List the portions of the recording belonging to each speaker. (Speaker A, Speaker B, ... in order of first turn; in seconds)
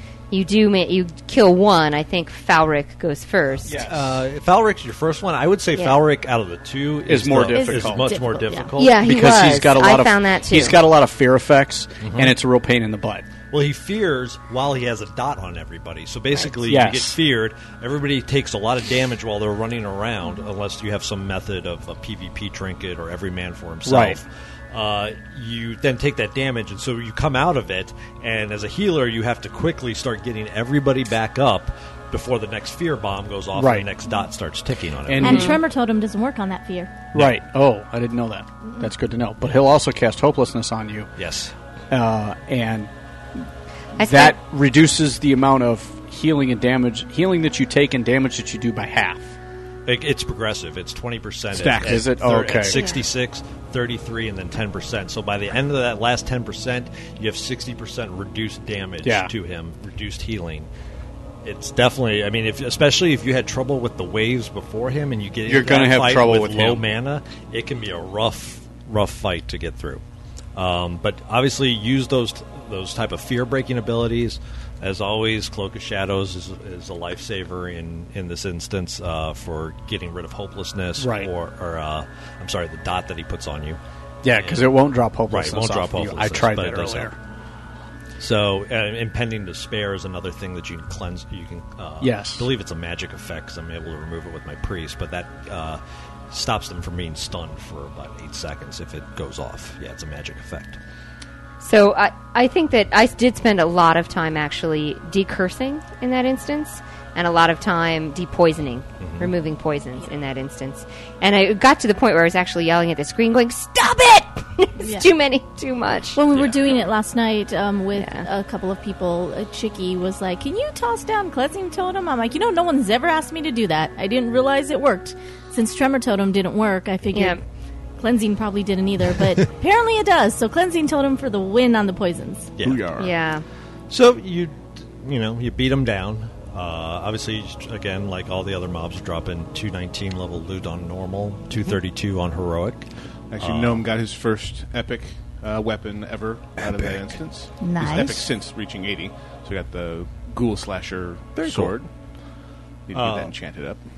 Speaker A: 0.3-3.7, 8.8-10.8, 35.2-35.6, 44.0-44.4, 101.6-116.2, 118.0-118.2, 127.1-127.4, 133.0-133.4
Speaker B: 3.6-4.1, 7.1-8.1, 8.8-13.3, 16.6-17.1, 23.8-24.2, 33.5-33.9, 35.1-35.6, 37.1-41.1, 41.9-43.4, 44.0-49.3, 51.8-52.8, 59.0-59.3, 65.5-66.8, 81.0-81.3, 84.2-87.2, 92.0-92.5
Speaker C: 3.7-8.9, 12.0-12.4, 13.5-35.5, 37.1-37.4, 41.2-41.5, 49.9-60.7, 61.4-70.0, 70.5-87.1, 88.2-100.8, 109.0-109.3, 116.3-116.8, 132.6-132.8, 133.9-142.9, 143.4-143.8, 146.6-147.0, 151.3-151.7, 152.9-153.3
Speaker D: 7.4-8.7, 35.2-37.0, 114.8-115.1, 116.1-127.4, 128.0-132.5, 147.6-148.2
Speaker E: 51.5-52.0, 132.6-133.1, 143.3-151.9, 152.9-153.8